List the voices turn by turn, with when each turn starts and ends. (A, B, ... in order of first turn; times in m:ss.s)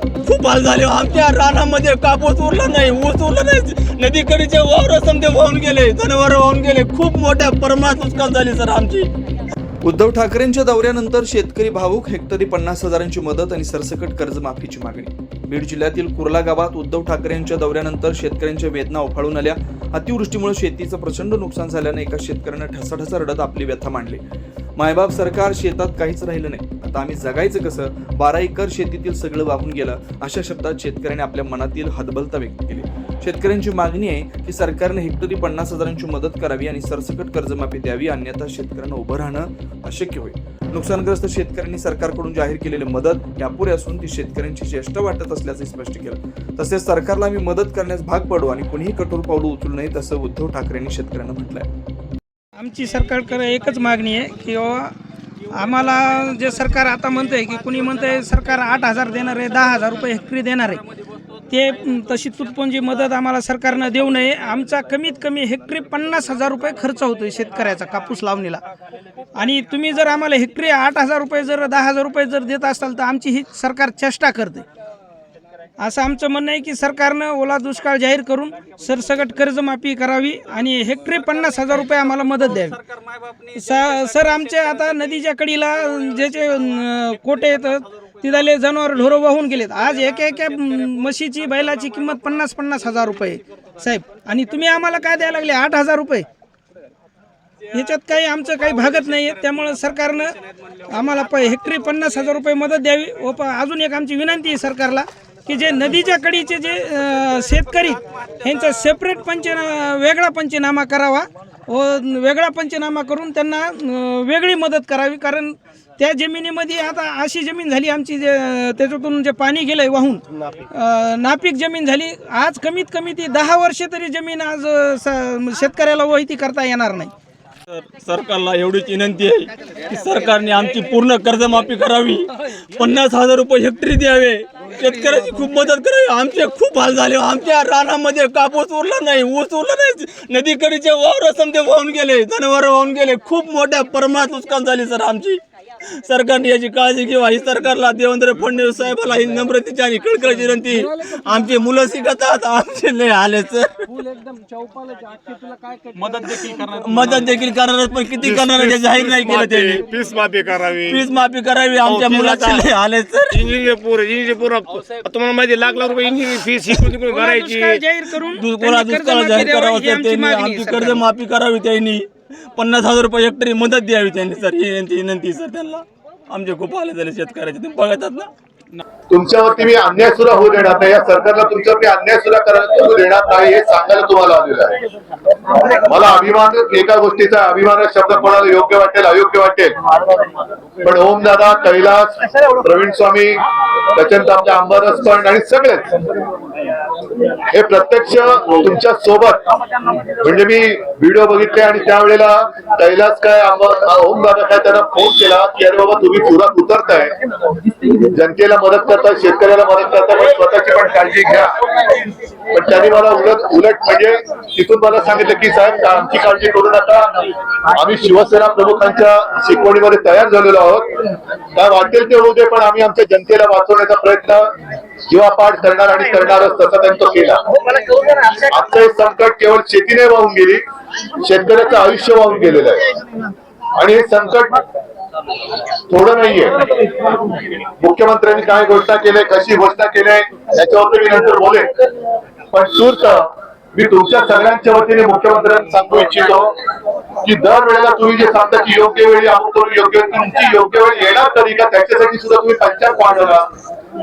0:00.2-0:09.1 A
0:09.8-0:24.2 B
0:24.8-0:51.7 B
0:52.6-0:54.9 C
0:55.5-1:00.8 C
1:01.5-1:08.6 C
1:09.4-1:14.7 C
1:15.8-1:22.8 C
1:23.5-1:36.2 C
1:37.7-1:40.3 C
1:40.9-2:07.1 C
2:07.7-2:25.4 A
2:26.0-2:34.1 A
2:36.0-2:39.9 A
2:39.2-2:41.0 D
2:40.9-2:43.5 A
2:41.9-2:42.6 D
2:43.4-2:47.8 D
2:47.0-2:51.0 C
2:48.4-2:58.8 A
2:59.1-3:04.8 E
3:05.6-3:09.8 E
3:10.8-3:13.4 E
3:13.9-3:15.9 E
3:17.5-3:19.5 E
3:20.1-3:27.1 E
3:28.0-3:31.5 E
3:32.5-3:44.5 E
3:45.1-3:47.4 E
3:48.2-3:50.6 E
3:51.2-3:52.9 E
3:53.8-3:54.6 E
3:55.9-4:01.7 E
4:02.5-4:06.5 E
4:07.2-4:13.5 E